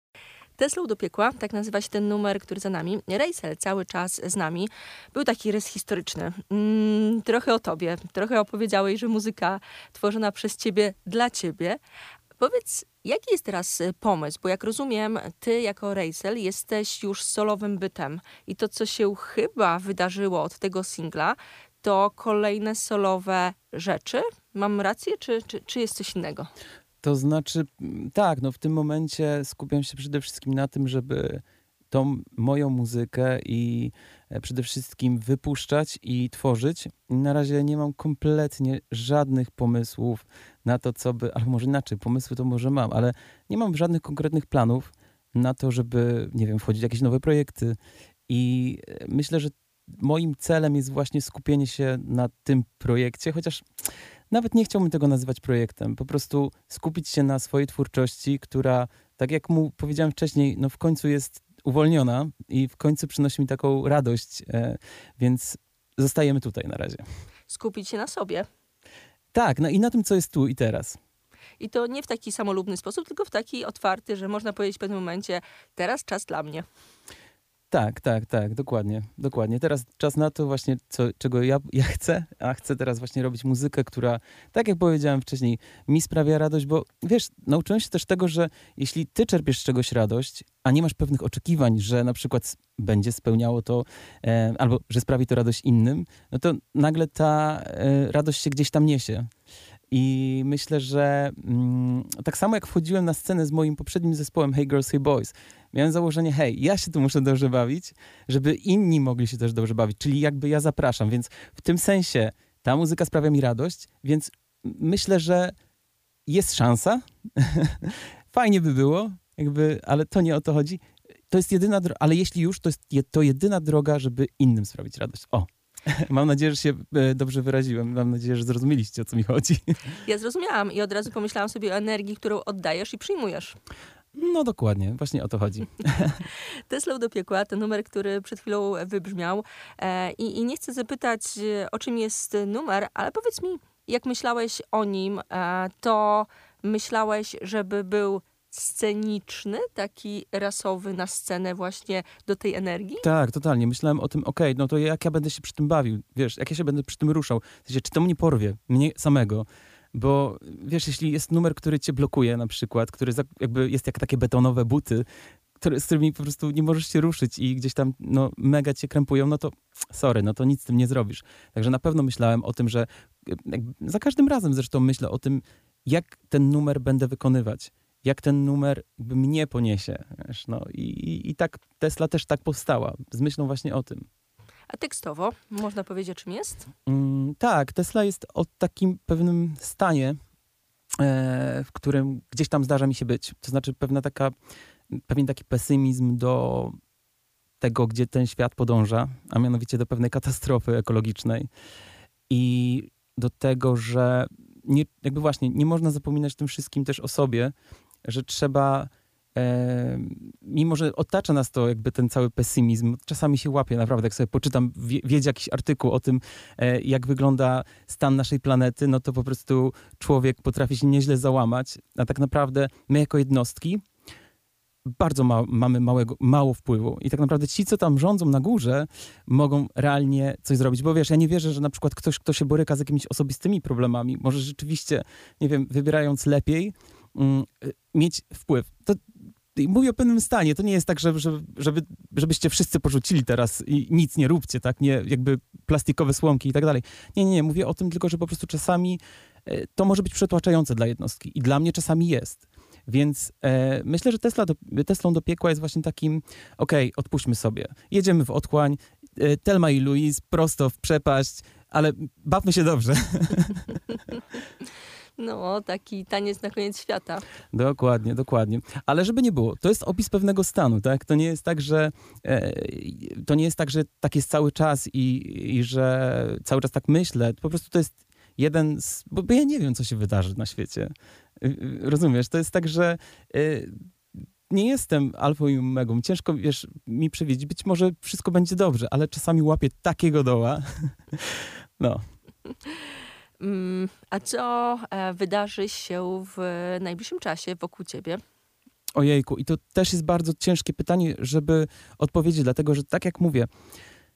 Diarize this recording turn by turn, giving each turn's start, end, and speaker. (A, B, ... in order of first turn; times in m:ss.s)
0:00.6-0:11.8 A
0:12.4-0:26.5 A
0:27.0-0:47.8 B
0:48.3-0:53.6 B
0:54.3-1:07.0 B
1:07.5-1:08.5 A
1:09.3-1:11.0 B
1:11.6-1:16.7 A
1:17.7-1:39.3 B
1:39.9-1:55.5 B
1:56.3-2:09.8 B
2:10.0-2:13.6 A
2:14.2-2:16.2 B
2:16.7-2:33.1 A
2:33.0-2:45.1 B
2:45.6-3:04.1 B
3:04.7-3:06.7 A
3:06.9-3:10.2 B
3:11.0-3:14.3 B
3:14.9-3:16.8 B
3:17.6-3:21.5 B
3:22.3-3:27.5 B
3:28.0-3:43.8 B
3:44.9-4:24.0 B
4:25.2-4:27.2 A
4:27.5-4:43.8 B
4:44.5-4:52.0 B
4:53.4-4:58.2 A
4:59.0-5:03.5 B